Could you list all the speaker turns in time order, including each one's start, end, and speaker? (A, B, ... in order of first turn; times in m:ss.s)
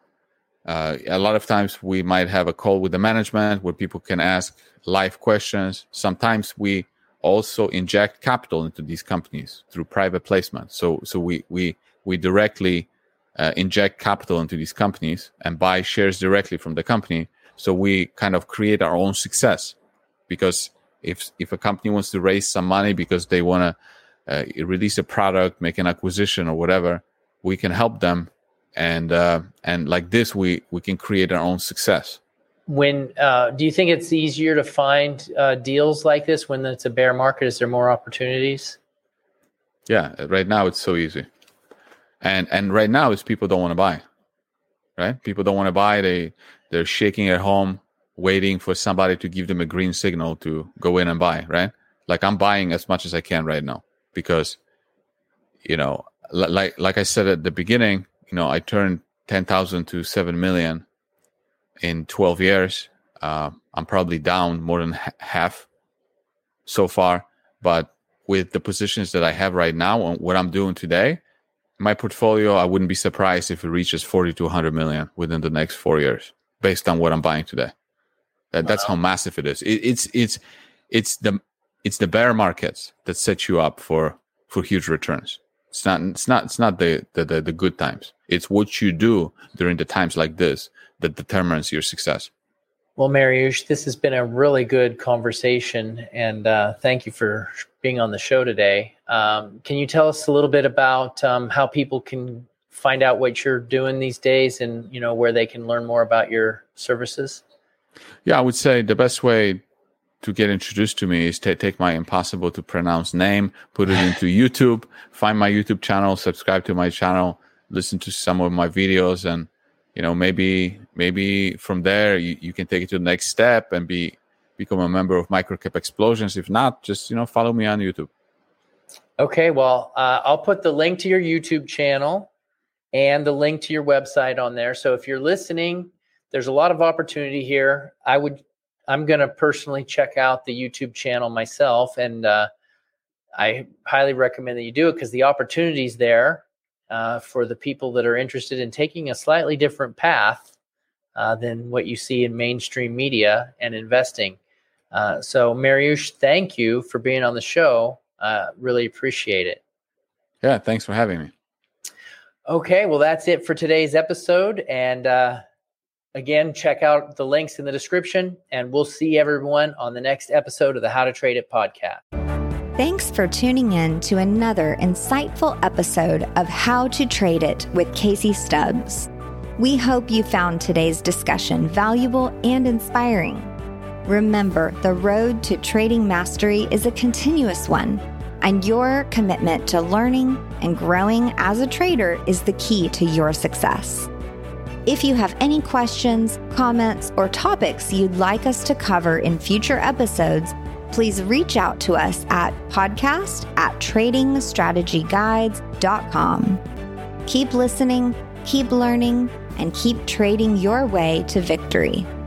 0:00.6-0:19.8 A
0:20.3-0:23.8 A
0:24.3-0:32.2 A
0:32.7-0:38.8 B
0:39.9-0:41.3 A
0:42.2-0:44.0 A
0:45.0-0:54.6 A
0:55.6-1:00.8 A
1:01.8-1:05.7 A
1:06.6-1:11.2 A
1:11.8-1:17.7 A
1:18.5-1:32.3 A
1:33.0-1:47.4 B
1:48.2-1:49.6 A
1:50.2-2:08.1 A
2:09.2-2:12.3 B
2:12.9-2:22.5 B
2:23.4-2:30.5 B
2:31.1-2:34.4 B
2:34.9-2:39.6 B
2:40.4-2:41.3 A
2:42.4-2:45.4 B
2:46.1-2:52.0 B
2:52.8-3:03.5 C
3:04.0-3:14.1 C
3:14.8-3:26.6 C
3:27.2-3:32.1 C